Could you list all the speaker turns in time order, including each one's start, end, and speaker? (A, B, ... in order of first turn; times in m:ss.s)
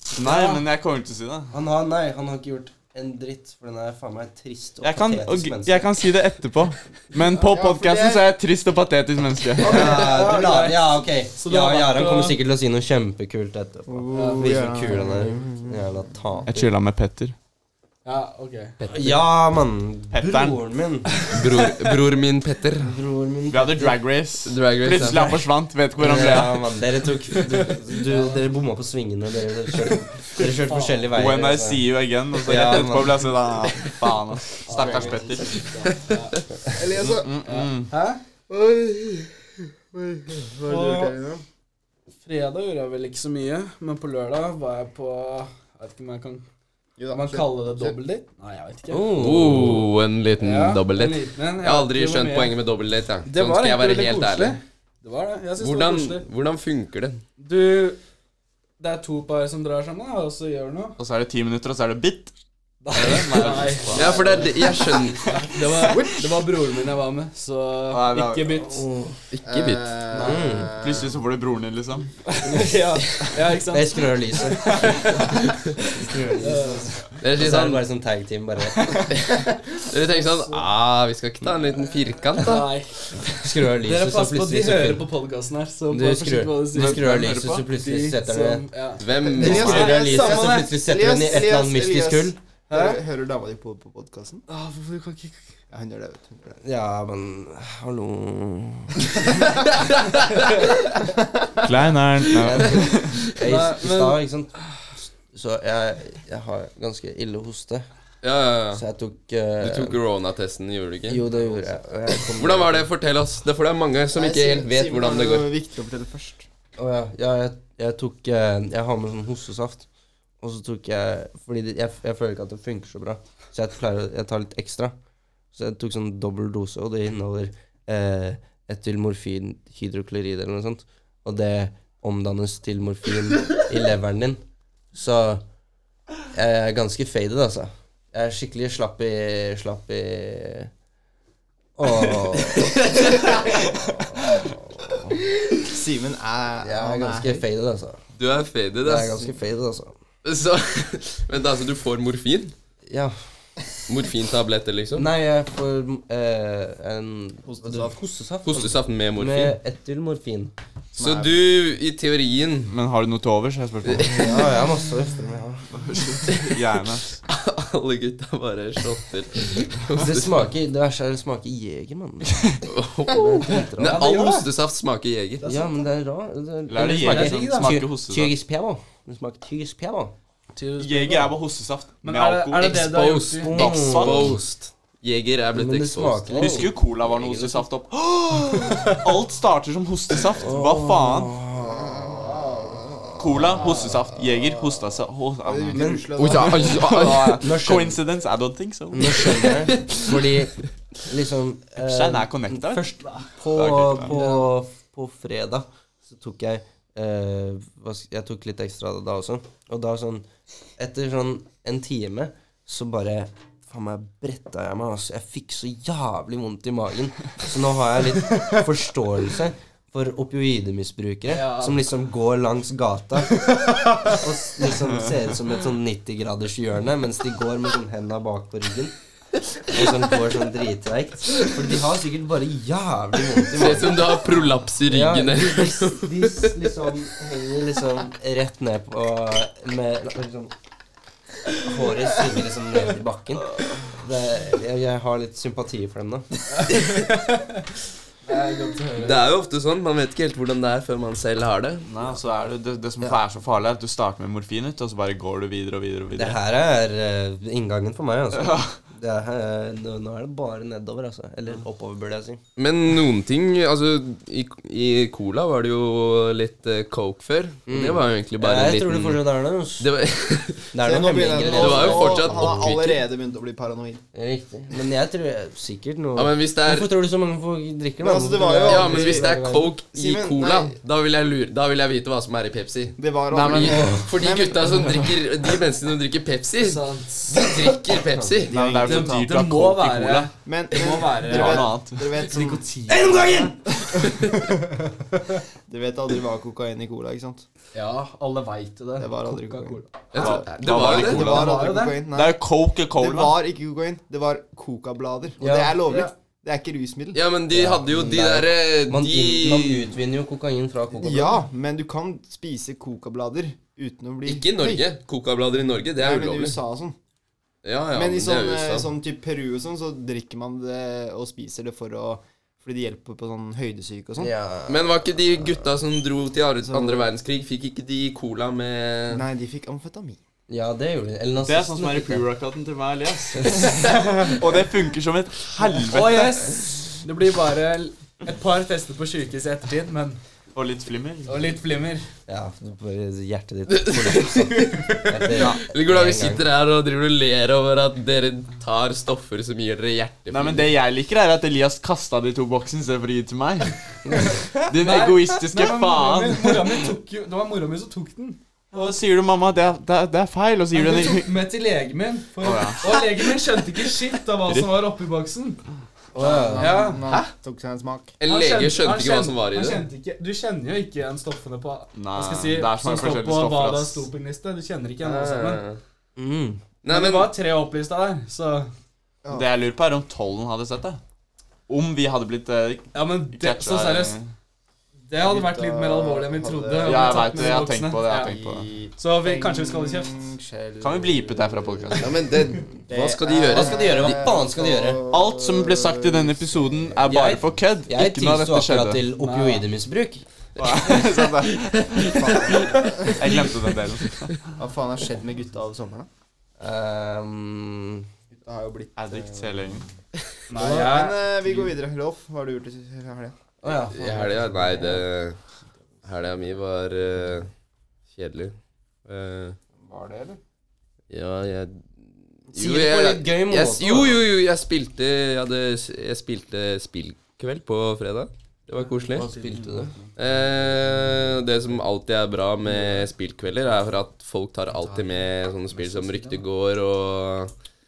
0:00.2-0:01.5 A
0:00.2-0:00.6 B
0:01.5-0:05.9 C
0:04.8-0:09.9 A
0:07.2-0:08.2 D
0:09.6-0:12.4 B
0:09.6-0:16.7 C
0:13.9-0:16.4 D
0:14.1-0:14.6 B
0:16.5-0:17.4 A
0:18.0-0:18.7 B
0:18.8-0:19.2 E
0:18.9-0:21.1 C
0:20.1-0:20.6 A
0:21.3-0:22.9 E
0:22.8-0:24.0 C
0:23.5-0:26.7 A
0:24.4-0:25.3 E
0:26.0-0:33.4 C
0:27.4-0:28.4 B
0:30.6-0:31.0 B
0:31.1-0:35.6 A
0:34.7-0:36.4 B
0:34.7-0:35.8 D
0:36.7-0:37.4 D
0:37.0-0:37.9 A
0:37.4-0:38.2 B
0:38.5-0:39.4 D
0:39.9-0:41.4 D
0:40.6-0:41.1 B
0:42.2-0:46.4 B
0:47.0-0:48.0 D
0:47.1-0:49.6 B
0:48.9-0:49.9 C
0:49.2-0:54.6 E
0:50.4-0:52.5 B
0:53.2-0:56.2 B
0:55.6-0:57.2 E
0:57.4-0:58.0 B
0:58.8-1:01.0 B
1:01.0-1:02.3 A
1:02.8-1:04.7 B
1:02.9-1:06.1 A
1:03.9-1:05.3 E
1:05.3-1:08.8 B
1:07.9-1:08.5 A
1:08.7-1:09.2 C
1:09.3-1:09.9 E
1:09.4-1:11.2 D
1:10.1-1:10.8 C
1:10.8-1:12.1 A
1:12.2-1:17.0 B
1:13.6-1:15.2 C
1:14.6-1:15.0 A
1:15.8-1:19.0 C
1:17.2-1:17.8 E
1:19.1-1:22.7 E
1:22.3-1:27.1 B
1:23.4-1:25.1 C
1:25.9-1:28.6 C
1:26.7-1:27.7 A
1:27.7-1:30.7 B
1:29.0-1:30.0 E
1:29.3-1:34.4 D
1:29.3-1:32.4 C
1:32.7-1:33.0 B
1:34.5-1:35.4 B
1:35.7-1:36.6 D
1:36.6-1:39.0 C
1:39.7-1:40.5 E
1:41.2-1:41.6 D
1:41.6-1:43.1 A
1:42.4-1:47.8 C
1:43.4-1:44.2 B
1:48.2-1:48.8 E
1:48.7-1:50.0 C
1:49.6-1:51.2 E
1:51.1-1:52.9 C
1:52.3-1:55.5 E
1:54.1-1:56.4 D
1:56.8-1:59.9 C
2:00.4-2:04.9 C
2:05.5-2:14.4 C
2:14.9-2:15.4 C
2:16.3-2:20.7 C
2:21.8-2:22.9 C
2:22.2-2:23.4 B
2:23.4-2:25.1 C
2:25.5-2:27.4 D
2:26.6-2:28.0 C
2:28.1-2:29.3 E
2:28.8-2:29.9 C
2:30.2-2:32.5 E
2:32.9-2:33.2 C
2:33.9-2:35.1 E
2:34.9-2:40.5 C
2:37.4-2:38.0 D
2:38.4-2:39.6 E
2:40.9-2:41.4 D
2:41.0-2:42.7 E
2:42.7-2:44.2 A
2:43.9-2:44.4 E
2:43.9-2:45.8 C
2:45.7-2:47.1 A
2:46.2-2:46.6 E
2:47.2-2:50.4 E
2:49.9-2:54.0 C
2:52.6-2:55.5 E
2:53.8-2:54.5 B
2:55.4-2:55.7 B
2:55.4-3:00.1 C
2:56.7-2:58.3 A
2:56.9-2:57.8 B
3:00.5-3:01.3 B
3:00.8-3:02.9 A
3:02.0-3:03.6 B
3:02.5-3:06.6 E
3:03.4-3:04.6 C
3:03.4-3:04.4 A
3:05.5-3:07.7 C
3:06.4-3:11.4 A
3:08.6-3:09.0 B
3:10.3-3:12.0 C
3:11.6-3:14.0 D
3:13.2-3:19.6 A
3:15.4-3:16.8 D
3:15.7-3:16.3 C
3:16.2-3:17.4 E
3:17.3-3:18.0 C
3:18.9-3:43.5 C
3:21.8-3:22.9 A
3:23.5-3:24.1 A
3:24.1-3:24.4 B
3:41.3-3:41.8 B
3:43.4-3:44.2 B
3:44.0-3:48.9 C
3:49.6-3:54.2 C
3:53.5-3:56.7 E
3:54.8-4:00.5 C
4:01.6-4:06.3 C
4:06.6-4:07.4 B
4:08.2-4:09.2 B
4:08.9-4:11.9 E
4:11.9-4:16.4 A
4:16.1-4:22.4 C
4:18.3-4:18.8 A
4:22.6-4:29.2 E
4:27.7-4:29.9 C
4:29.8-4:30.7 E
4:30.7-4:32.7 C
4:30.8-4:34.0 D
4:31.4-4:33.0 E
4:34.1-4:39.4 C
4:36.1-4:36.9 E
4:38.0-4:40.8 D
4:38.6-4:48.6 E
4:39.0-4:39.3 B
4:43.0-4:44.9 D
4:43.3-4:43.9 A
4:43.6-4:44.1 C
4:46.6-4:47.5 B
4:48.4-4:49.1 D
4:48.5-4:50.3 A
4:48.8-4:53.5 B
4:50.4-4:52.6 D
4:51.2-4:52.1 A
4:52.9-4:53.6 C
4:53.8-4:54.1 D
4:54.0-4:54.3 E
4:55.7-4:57.4 D
4:57.7-4:59.8 B
4:59.0-5:02.4 D
5:00.1-5:01.6 E
5:00.2-5:03.4 A
5:01.0-5:02.0 B
5:02.9-5:07.2 D
5:05.4-5:05.8 C
5:05.8-5:06.1 B
5:07.1-5:09.8 E
5:07.5-5:11.4 C
5:11.0-5:14.8 D
5:14.2-5:16.6 E
5:16.0-5:17.0 D
5:17.6-5:18.9 E
5:17.9-5:24.3 D
5:24.2-5:25.7 C
5:24.7-5:29.2 E
5:26.7-5:27.1 D
5:29.1-5:30.2 D
5:30.5-5:32.3 C
5:31.4-5:36.4 A
5:33.8-5:34.4 B
5:35.7-5:40.2 B
5:40.5-5:41.6 A
5:41.2-5:42.1 B
5:42.3-5:46.4 C
5:43.7-5:50.7 E
5:50.3-5:53.7 A
5:54.5-5:56.8 A
5:54.8-5:59.0 B
5:58.7-6:01.3 A
6:00.7-6:05.6 B
6:02.4-6:03.2 A
6:04.5-6:04.8 A
6:06.1-6:06.9 C
6:06.2-6:08.1 D
6:06.5-6:07.0 B
6:07.0-6:07.3 E
6:08.2-6:09.8 E
6:08.2-6:15.6 B
6:12.0-6:14.1 A
6:15.0-6:15.8 E
6:16.2-6:16.6 C
6:16.8-6:17.3 E
6:16.9-6:18.7 B
6:19.3-6:21.0 A
6:21.7-6:24.3 A
6:22.9-6:24.2 B
6:25.1-6:28.3 B
6:25.2-6:32.3 D
6:26.8-6:28.6 A
6:29.0-6:30.2 B
6:30.8-6:32.2 A
6:32.0-6:34.2 E
6:32.8-6:36.9 D
6:33.5-6:35.0 C
6:35.1-6:39.0 A
6:37.1-6:40.2 C
6:39.1-6:39.6 B
6:40.6-6:43.4 E
6:40.6-6:44.4 A
6:42.0-6:43.3 D
6:44.6-6:46.1 D
6:46.6-6:48.1 C
6:48.3-6:49.7 D
6:49.0-6:49.9 A
6:50.5-6:51.3 B
6:50.5-6:53.4 D
6:53.6-6:55.0 C
6:53.7-6:55.4 E
6:56.0-6:57.5 E
6:58.1-6:59.6 E
6:59.8-7:00.4 D
7:01.1-7:01.9 E
7:02.5-7:09.3 E
7:02.5-7:04.2 C
7:09.1-7:09.9 C
7:09.3-7:10.0 B
7:10.2-7:17.5 E
7:15.9-7:16.4 B